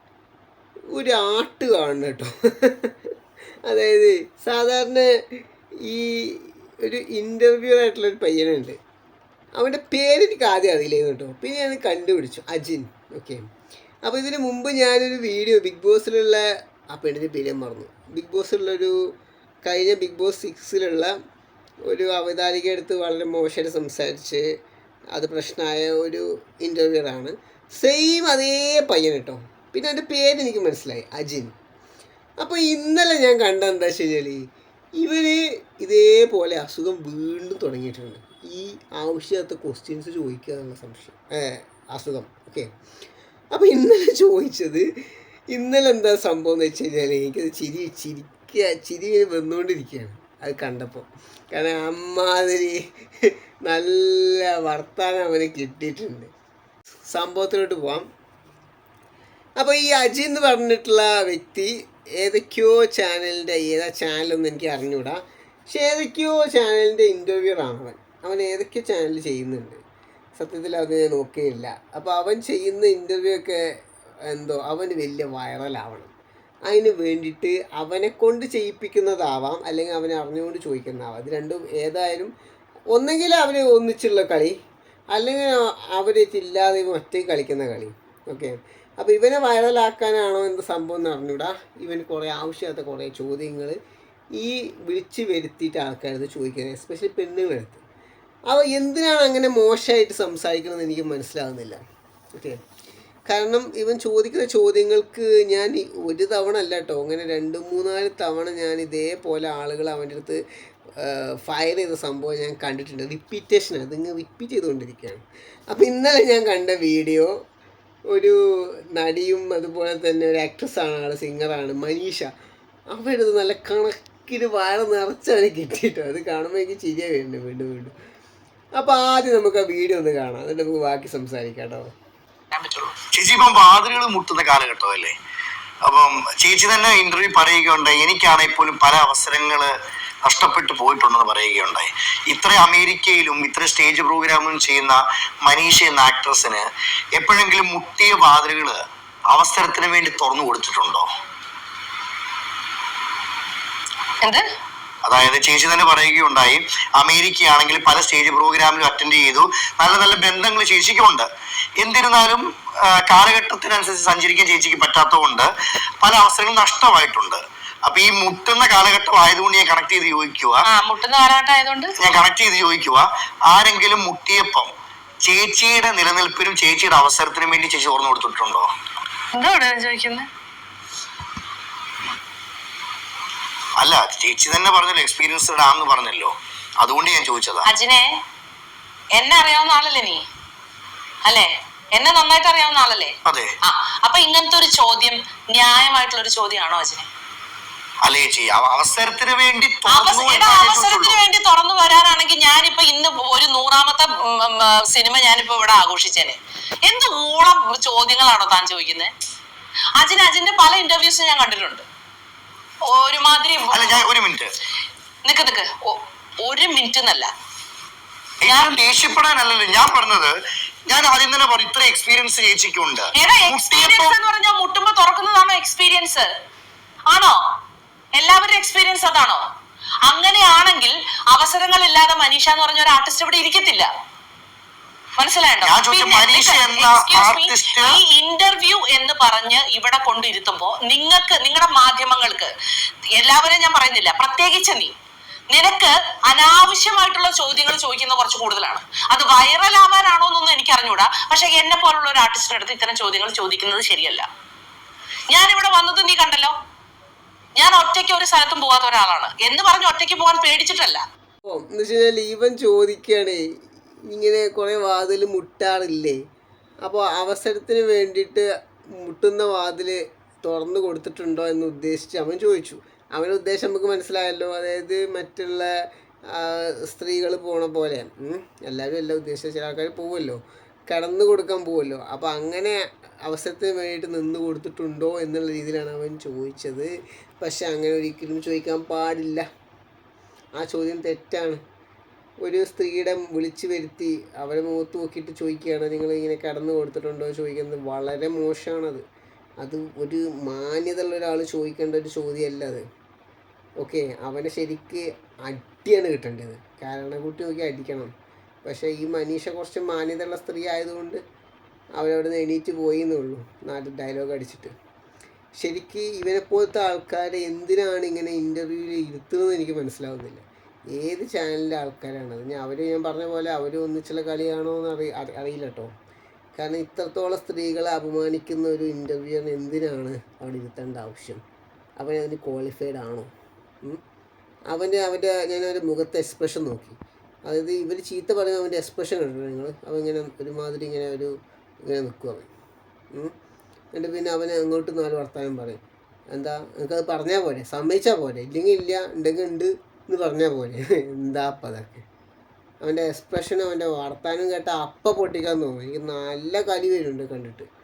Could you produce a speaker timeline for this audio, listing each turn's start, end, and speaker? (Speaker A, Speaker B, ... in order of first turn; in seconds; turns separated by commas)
Speaker A: 0.9-2.9, Speaker A: 3.6-5.1, Speaker A: 5.8-8.8, Speaker A: 9.6-13.4, Speaker A: 14.0-18.9, Speaker A: 19.6-21.1, Speaker A: 21.9-24.4, Speaker A: 25.1-31.5, Speaker A: 32.4-34.4, Speaker A: 35.0-42.7, Speaker A: 43.5-44.8, Speaker A: 45.5-52.8, Speaker A: 53.6-56.3, Speaker A: 57.1-58.1, Speaker A: 59.6-69.8, Speaker A: 70.4-73.6, Speaker A: 74.3-76.1, Speaker A: 76.7-82.3, Speaker A: 82.9-84.5, Speaker A: 85.1-93.7, Speaker A: 94.3-97.8, Speaker A: 98.5-101.8, Speaker A: 103.3-110.4, Speaker A: 111.0-117.3, Speaker A: 118.1-118.3, Speaker A: 118.9-122.3, Speaker A: 122.9-127.9, Speaker A: 128.8-131.9, Speaker B: 132.5-133.0, Speaker C: 133.1-135.1, Speaker C: 135.8-139.7, Speaker C: 140.2-148.8, Speaker C: 149.3-151.1, Speaker C: 155.0-161.3, Speaker C: 161.8-165.5, Speaker C: 166.0-170.6, Speaker B: 170.7-171.9, Speaker C: 172.0-174.7, Speaker C: 175.2-178.7, Speaker B: 179.3-180.3, Speaker C: 183.8-187.7, Speaker B: 187.7-188.1, Speaker B: 189.1-190.2, Speaker B: 191.2-197.1, Speaker C: 193.2-193.5, Speaker C: 198.0-201.2, Speaker B: 199.9-209.1, Speaker B: 210.0-211.8, Speaker B: 212.9-214.0, Speaker C: 213.7-214.5, Speaker B: 215.2-217.3, Speaker C: 218.4-220.3, Speaker B: 218.4-218.7, Speaker C: 220.9-224.2, Speaker B: 223.2-226.3, Speaker B: 227.1-227.4, Speaker B: 228.1-229.4, Speaker B: 230.1-233.9, Speaker B: 235.2-242.5, Speaker C: 235.6-238.0, Speaker B: 243.2-244.9, Speaker B: 245.5-254.3, Speaker B: 255.3-256.5, Speaker B: 257.6-261.0, Speaker A: 261.4-263.4, Speaker A: 264.1-266.2, Speaker A: 266.8-268.4, Speaker A: 269.0-275.7, Speaker A: 276.3-289.4, Speaker A: 290.6-291.6, Speaker A: 292.4-299.0, Speaker A: 299.6-302.8, Speaker A: 303.8-308.1, Speaker A: 308.6-311.2, Speaker A: 312.0-314.7, Speaker A: 315.6-325.9, Speaker A: 326.6-331.4, Speaker A: 332.0-333.3, Speaker A: 334.7-341.3, Speaker A: 341.9-342.5, Speaker A: 343.9-345.8, Speaker A: 346.3-352.0, Speaker A: 352.8-357.7